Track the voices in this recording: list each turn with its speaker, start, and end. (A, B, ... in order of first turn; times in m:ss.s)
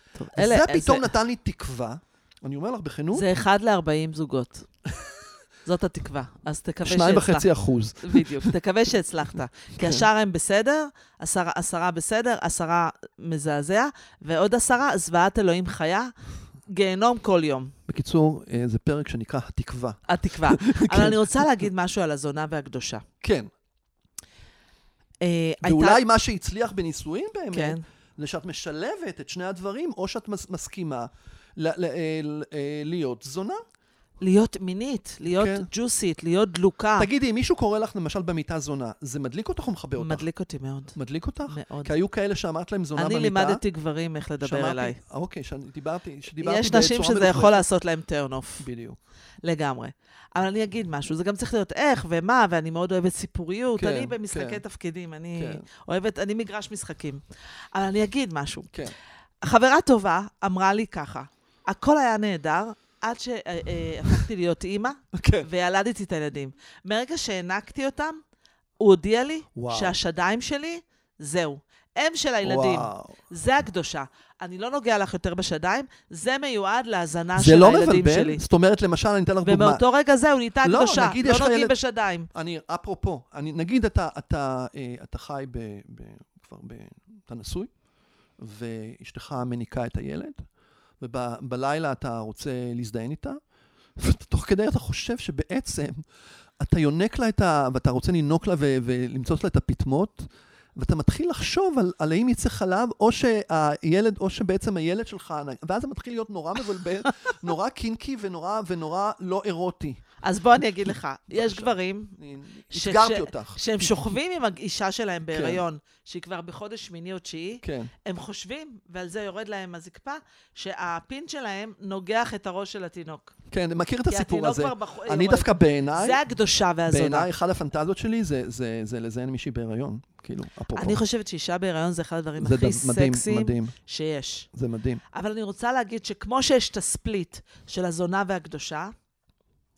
0:00.2-0:01.1 A
0:00.4-0:03.3 B
0:03.1-0:04.7 A
0:05.6-0:07.5 A
0:06.8-0:08.5 B
0:08.0-0:16.1 A
0:09.8-0:10.1 B
0:16.7-0:17.8 A
0:17.9-0:21.4 B
0:20.1-0:23.0 A
0:23.2-0:23.5 B
0:25.2-0:26.0 A
0:25.6-0:33.6 B
0:27.5-0:27.8 A
0:34.2-0:37.1 A
0:35.3-0:35.7 B
0:37.0-0:40.2 B
0:40.0-0:41.0 A
0:41.0-0:43.6 B
0:41.5-0:41.9 A
0:43.0-0:45.0 A
0:44.4-0:47.7 B
0:46.4-0:48.6 A
0:48.6-0:49.0 B
0:49.4-0:57.2 A
0:53.8-0:54.6 B
0:55.4-0:55.6 B
0:57.7-0:58.7 A
0:59.4-1:08.2 A
1:05.1-1:05.5 B
1:08.8-1:18.4 A
1:09.6-1:10.0 B
1:12.4-1:13.2 B
1:17.4-1:19.8 B
1:19.4-1:22.3 A
1:20.6-1:21.8 B
1:22.3-1:27.7 B
1:28.4-1:30.4 B
1:31.0-1:33.4 B
1:34.0-1:36.0 B
1:36.6-1:50.0 B
1:50.2-1:52.2 A
1:51.3-1:54.1 B
1:52.7-2:03.3 A
1:55.3-1:55.6 B
1:57.6-1:57.9 B
2:03.5-2:06.2 B
2:04.1-2:07.3 A
2:06.9-2:11.0 B
2:10.7-2:14.5 A
2:12.4-2:13.8 B
2:14.5-2:15.0 B
2:15.1-2:18.9 A